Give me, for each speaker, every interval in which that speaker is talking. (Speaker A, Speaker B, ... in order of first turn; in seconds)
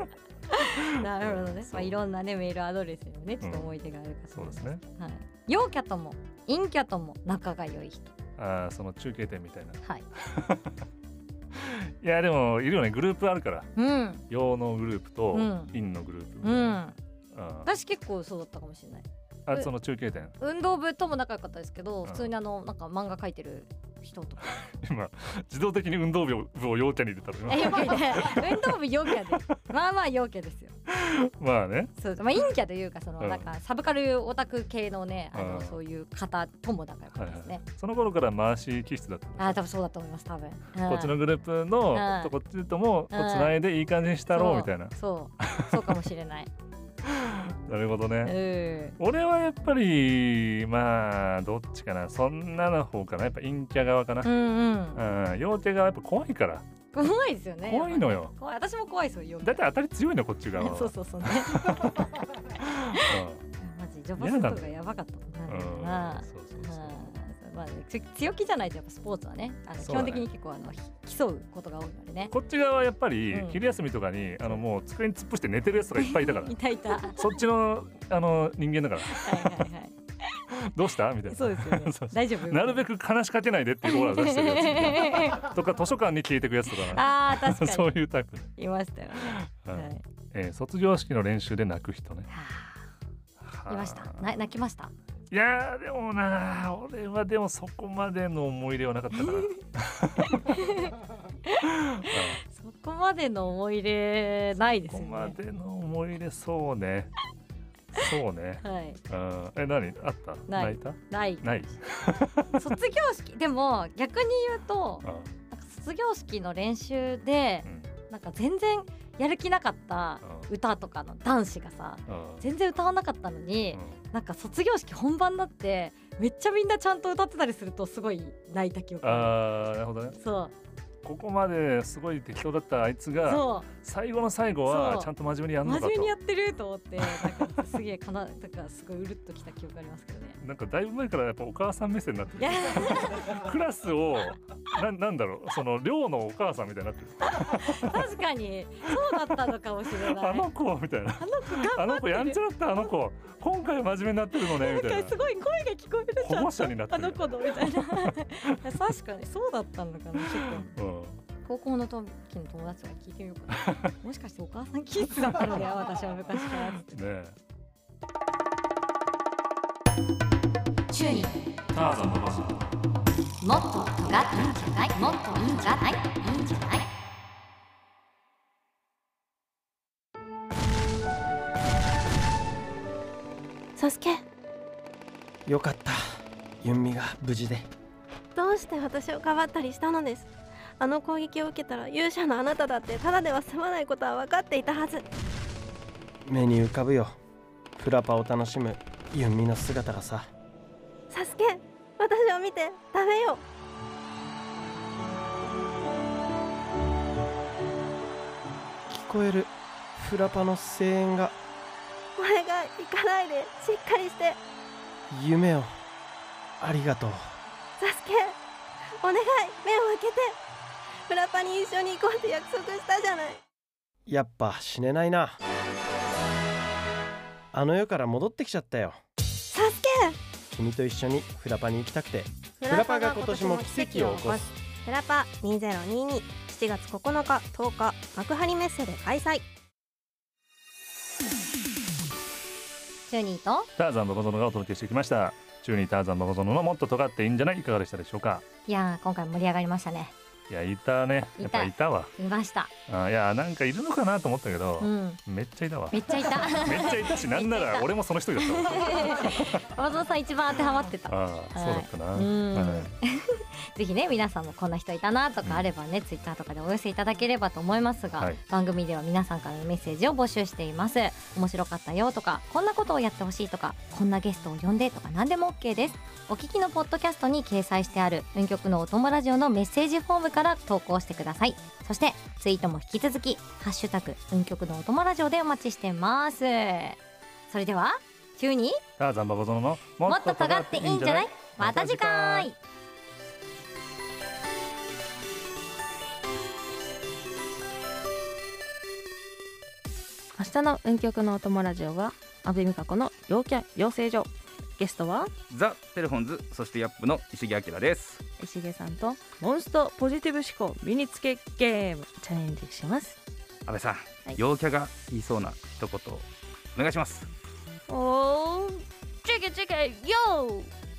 Speaker A: 0.5-8.1, 13.8-14.3, 15.3-15.7, 16.4-17.0, 17.6-19.7, 20.4-24.5, 27.5-30.7, 32.0-37.6, 39.4-41.1, 41.9-42.3, 43.1-43.6, 44.3-46.5, 48.2-49.0, 54.2-55.0, 56.9-59.6, 60.6-62.1, 62.9-72.3, 73.3-73.6, 76.0-77.4, 79.1-79.9, 81.3-82.9, 83.8-85.5, 86.8-88.0, 88.6-90.0, 92.3-92.8, 93.7-94.9, 100.2-100.9, 101.5-105.4, 108.6-109.0, 110.5-111.5, 112.5-129.5, 130.2-130.5, 133.2-133.7, 134.7-135.1, 135.6-140.4, 142.4-143.4, 147.3-150.5, 151.2-152.4, 154.3-160.7, 161.4-166.9, 170.9-171.4, 173.4-176.9, 243.1-243.7, 248.7-250.1, 251.4-252.7, 254.8-255.2, 255.9-287.0, 287.5-288.8, 290.0-292.6
Speaker B: 0.8-2.0, 3.4-3.7, 4.3-4.8, 8.4-10.8, 11.5-13.7, 14.3-16.8, 17.3-17.7, 19.5-20.4, 22.1-22.3, 24.4-29.6, 30.9-31.9, 33.2-33.5, 35.3-35.8, 37.2-39.6, 40.8-45.8, 47.1-48.4, 49.0-54.3, 54.9-56.6, 57.7-58.3, 59.4-62.1, 62.6-63.4, 64.2-64.8, 65.5-67.1, 69.8-70.3, 72.3-79.7, 80.5-88.5, 89.2-92.3, 93.4-94.3, 95.3-100.6, 102.0-102.4, 104.6-107.1, 107.9-112.7, 115.0-115.3, 117.7-117.9, 120.2-120.5, 122.1-122.4, 123.7-124.0, 129.0-130.2, 131.0-136.1, 137.0-137.7, 140.4-148.1, 148.9-149.4, 150.1-155.2, 156.2-157.6, 160.3-161.2, 166.8-167.4, 171.7-172.6, 243.8-248.4, 250.5-252.1, 252.9-259.7, 261.1-262.9, 289.0-292.5
Speaker C: 183.8-184.2, 188.4-195.1, 201.1-203.4, 212.2-214.4, 217.8-218.4, 219.0-220.4, 221.1-223.4, 229.5-230.2, 232.6-239.4
Speaker D: 185.5-187.7, 196.3-197.1, 197.8-200.3, 208.9-211.3, 215.1-215.7, 216.6-217.2, 224.1-225.4, 227.5-229.0, 230.5-234.5
Speaker E: 300.4-305.3, 308.4-313.2, 317.9-320.7
Speaker F: 305.5-308.2, 313.7-317.3